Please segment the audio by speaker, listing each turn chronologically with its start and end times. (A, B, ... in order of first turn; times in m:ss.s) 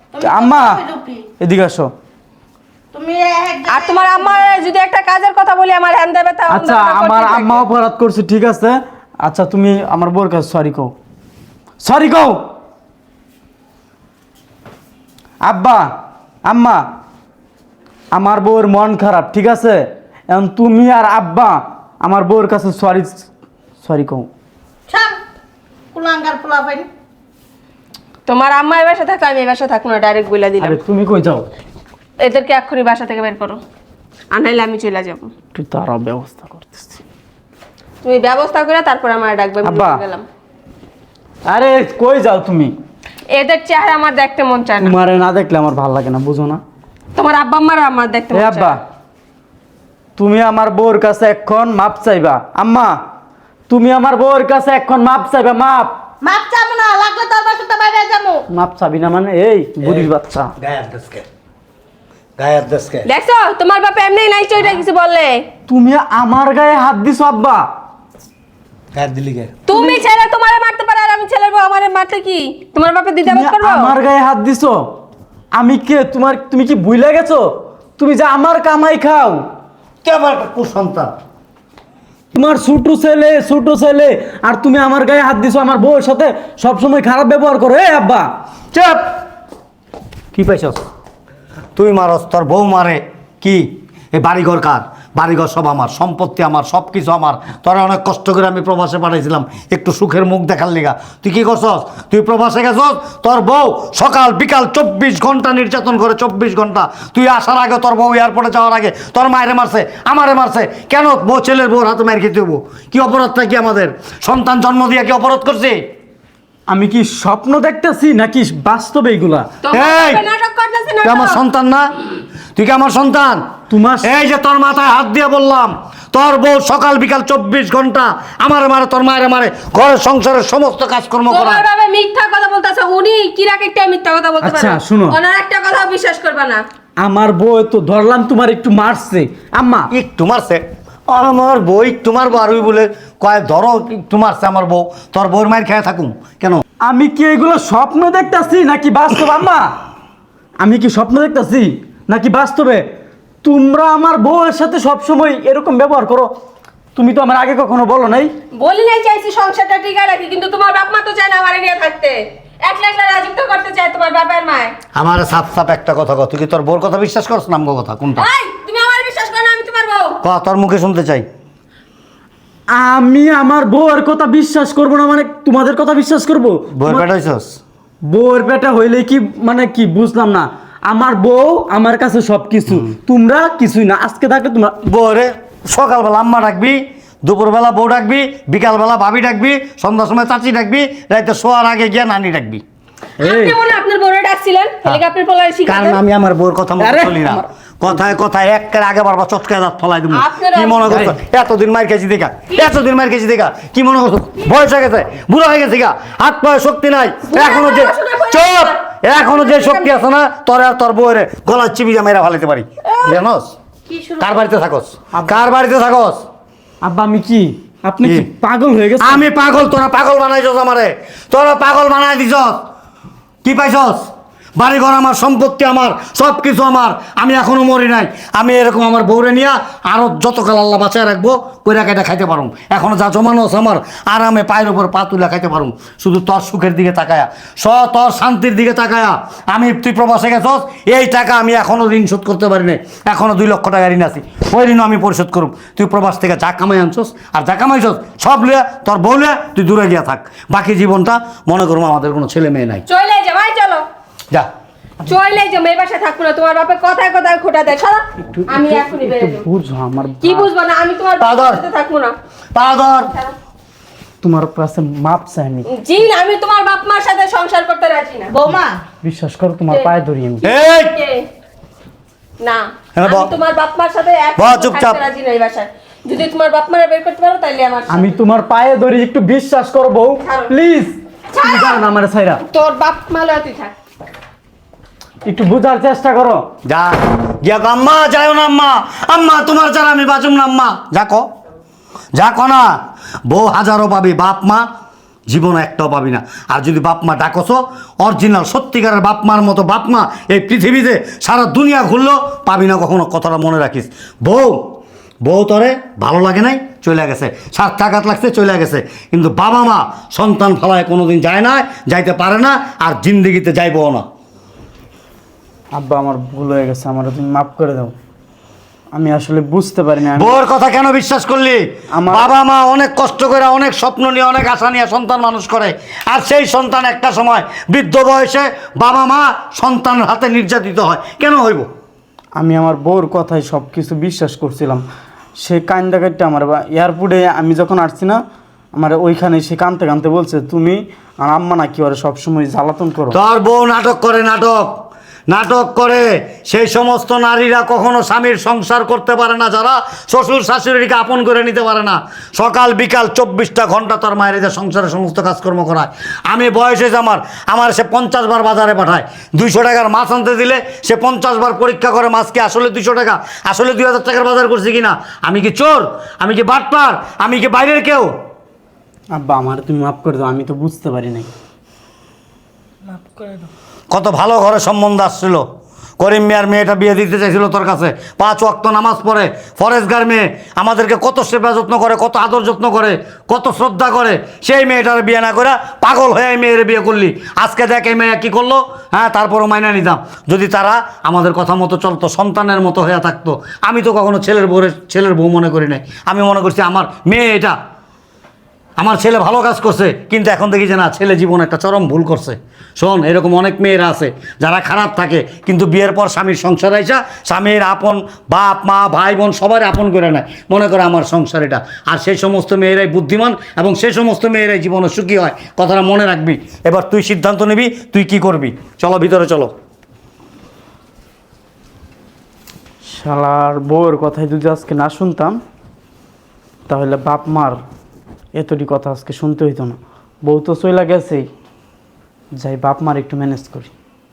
0:00.1-0:01.3 A
0:00.2-0:00.8 B
0:01.4-0:01.9 B
0:02.9-0:04.6 A
0:03.7-0:07.7 C
0:06.5-0:10.9 B
0:11.8-0:12.4 B
0:15.4-0:15.9 B
0:16.5-0:16.8 B
0:18.1-0:23.3 B
0:23.8-0:24.3 B
0:24.9-0:25.2 A
0:25.9-0:26.9 A
0:28.3-0:30.8 C
0:30.6-0:31.5 B
0:32.2-0:33.6 C
0:34.3-0:35.3 C
0:35.6-0:37.0 B
0:38.0-0:40.3 C
0:39.6-0:40.0 B
0:41.5-0:42.7 B
0:43.3-0:45.0 C
0:44.8-0:46.6 B
0:47.2-0:48.8 C
0:48.3-0:48.8 B
0:50.2-0:53.0 B
0:53.7-0:55.9 B
0:56.2-0:58.4 A
0:58.5-1:00.5 B
0:59.8-1:01.3 D
1:02.4-1:03.1 D
1:03.1-1:05.4 C
1:05.7-1:07.7 B
1:08.9-1:09.6 D
1:09.7-1:14.0 C
1:09.7-1:10.0 B
1:13.2-1:14.9 B
1:15.5-1:19.4 B
1:20.0-1:21.1 D
1:22.3-1:28.3 B
1:28.7-1:29.1 D
1:30.3-1:30.8 D
1:31.8-1:55.8 D
1:56.7-1:59.5 B
1:59.6-2:01.4 C
1:59.7-2:00.2 D
2:01.0-2:02.0 D
2:02.6-2:03.4 D
2:03.7-2:04.1 B
2:04.0-2:11.6 D
2:11.3-2:16.6 C
2:14.4-2:15.2 B
2:17.0-2:19.9 B
2:19.9-2:26.6 D
2:26.8-2:29.8 B
2:30.6-2:32.9 B
2:33.4-2:36.3 B
2:37.0-2:38.3 B
2:38.6-2:44.8 C
2:45.0-2:48.3 D
2:48.2-2:50.2 C
2:50.2-2:51.3 D
2:52.7-2:57.0 B
2:56.8-2:57.6 D
2:58.0-3:04.8 B
3:04.8-3:12.6 D
3:13.2-3:13.6 B
3:13.2-3:16.0 C
3:15.7-3:33.5 D
3:16.8-3:17.5 B
3:20.1-3:20.9 C
3:20.9-3:21.1 B
3:27.3-3:30.0 C
3:32.9-3:33.2 C
3:33.9-3:34.5 A
3:34.2-3:36.2 D
3:35.1-3:35.4 B
3:36.8-3:39.3 B
3:38.0-3:38.3 D
3:39.0-3:42.6 D
3:43.4-4:12.8 D
4:12.9-4:13.8 C
4:15.0-4:19.4 C
4:18.2-4:20.5 B
4:20.2-4:22.2 C
4:21.2-4:21.6 D
4:22.6-4:23.1 D
4:23.1-4:23.3 C
4:24.2-4:25.7 B
4:25.7-4:28.3 C
4:28.3-4:28.8 A
4:29.0-4:30.5 B
4:30.4-4:31.3 C
4:30.4-4:31.0 D
4:32.4-4:38.2 C
4:33.0-4:33.3 D
4:34.4-4:35.0 D
4:37.9-4:42.4 B
4:40.2-4:40.5 C
4:41.3-4:41.8 C
4:42.5-4:43.7 C
4:45.2-4:46.5 B
4:46.6-4:51.3 D
4:52.2-4:52.8 D
4:53.3-4:54.6 D
4:55.3-5:04.7 D
5:05.2-5:14.0 D
5:15.7-5:17.9 B
5:18.9-5:20.4 B
5:20.2-5:31.7 D
5:21.9-5:22.3 B
5:32.4-5:34.8 B
5:35.4-5:38.2 B
5:38.8-5:43.2 B
5:43.1-6:08.1 D
6:09.1-6:11.3 B
6:12.9-6:13.5 A
6:13.9-6:15.4 D
6:16.0-6:37.6 D
6:38.8-6:59.5 D
7:02.9-7:05.4 B
7:06.7-7:07.6 B
7:08.4-7:11.3 B
7:12.4-7:13.7 B